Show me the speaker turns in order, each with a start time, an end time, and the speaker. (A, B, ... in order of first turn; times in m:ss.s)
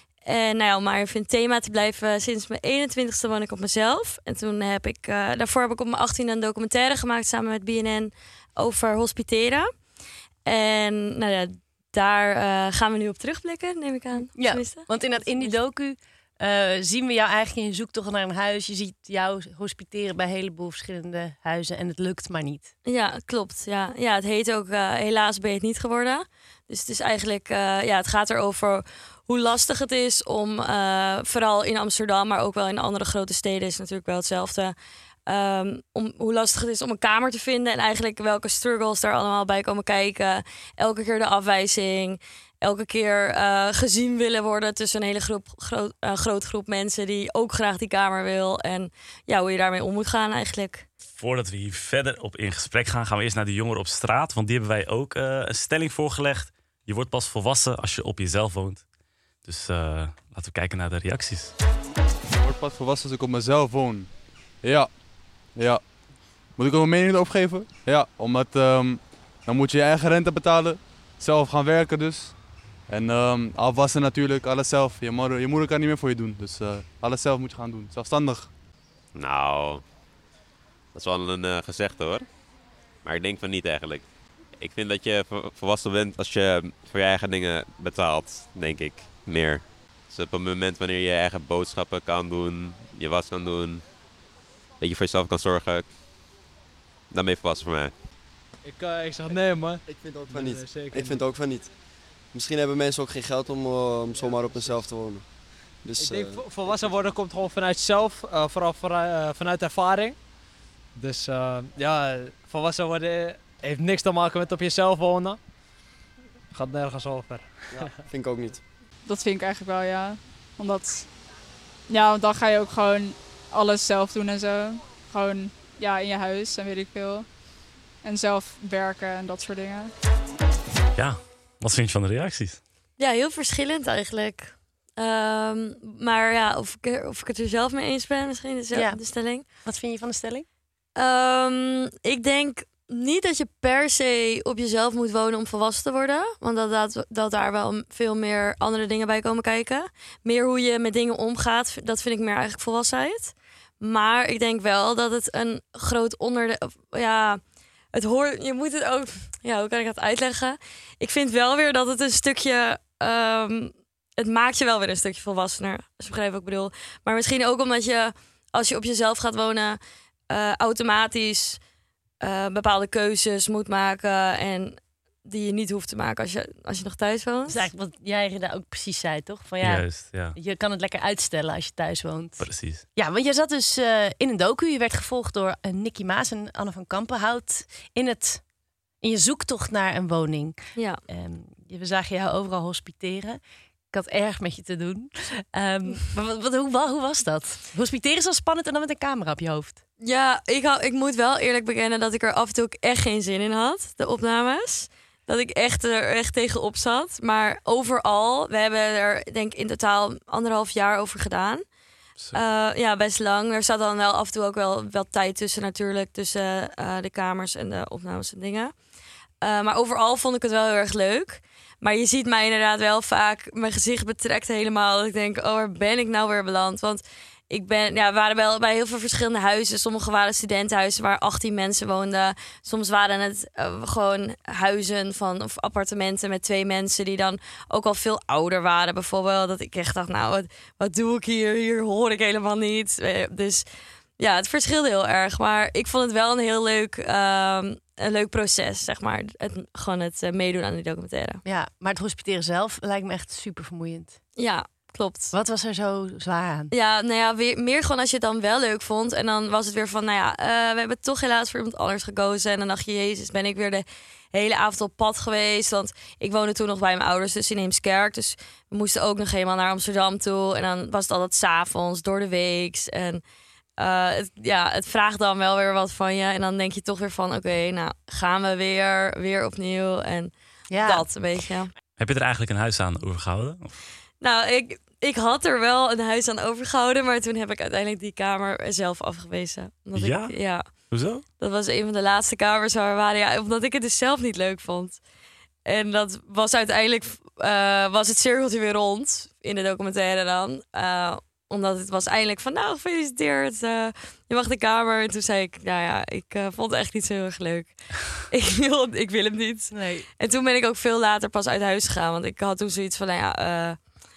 0:00.2-0:09.8 A
0:10.4-0:15.6 A
0:14.3-0:22.7 B
0:22.8-0:34.7 A
0:35.2-0:50.9 A
0:51.1-1:01.5 C
1:02.4-1:18.6 D
1:19.1-1:19.8 E
1:20.9-1:34.1 E
1:34.8-1:35.9 E
1:37.1-1:38.0 E
1:38.6-1:41.3 F
1:39.8-1:47.0 G
1:44.1-1:44.8 F
1:46.0-1:55.6 F
1:56.5-1:58.0 F
1:57.7-1:58.6 G
1:59.0-2:01.2 H
2:01.9-2:07.4 H
2:08.0-2:09.9 H
2:11.0-2:12.6 C
2:13.0-2:19.4 A
2:18.7-2:20.4 B
2:21.0-2:37.4 A
2:37.9-2:49.8 A
2:50.3-2:51.6 A
2:52.2-2:57.6 A
2:57.5-3:08.5 B
2:59.6-3:00.4 C
3:02.4-3:02.8 C
3:09.0-3:19.8 B
3:10.8-3:11.0 A
3:20.0-3:31.6 A
3:32.3-3:38.8 A
3:39.4-4:03.6 A
4:04.2-4:11.4 A
4:11.4-4:14.2 B
4:14.4-4:15.3 A
4:15.3-4:16.7 B
4:16.7-4:33.2 A
4:33.8-4:41.7 A
4:40.7-4:41.1 B
4:42.0-4:43.8 C
4:44.2-4:55.0 A
4:49.9-4:51.2 C
4:55.6-5:14.0 A
5:09.7-5:10.1 B